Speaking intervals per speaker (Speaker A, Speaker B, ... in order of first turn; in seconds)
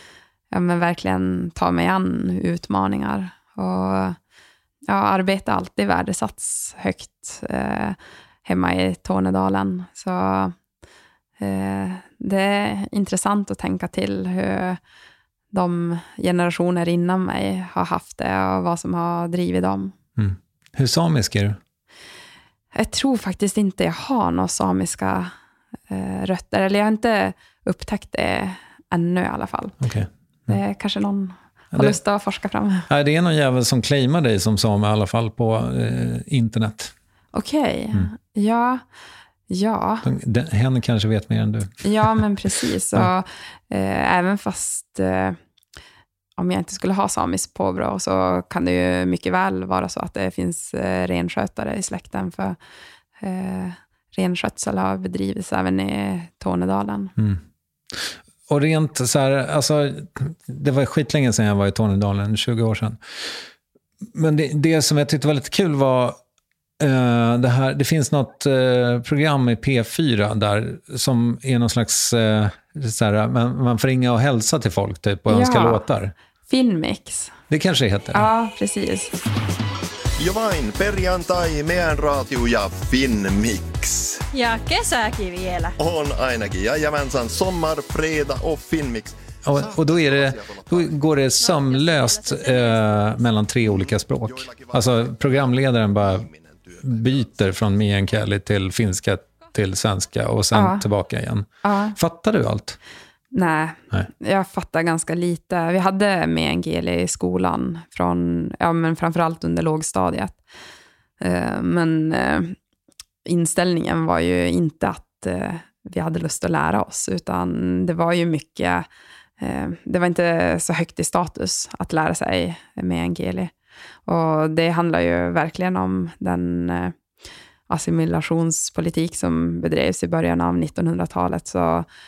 Speaker A: 0.5-4.2, 4.9-10.6, 11.4-14.8, 15.5-19.9, 22.8-25.3, 25.9-29.8, 30.5-32.9, 37.3-38.8, 39.5-40.1, 41.8-45.4, 46.4-52.6, 53.2-57.1, 75.3-75.8, 76.5-77.3, 78.1-79.1, 100.5-100.9, 101.6-102.0, 103.3-110.4, 111.2-112.6, 113.2-118.9, 119.4-123.5, 124.1-127.0, 127.7-131.9
Speaker B: 20.2-21.6, 29.8-30.6, 32.9-36.9, 40.0-42.2, 57.9-63.4, 64.1-66.2, 66.8-76.1, 77.5-78.3, 89.4-96.3, 96.8-102.8
Speaker C: 80.2-84.2, 85.8-91.1, 93.8-97.5
Speaker D: 84.3-85.8, 91.4-93.2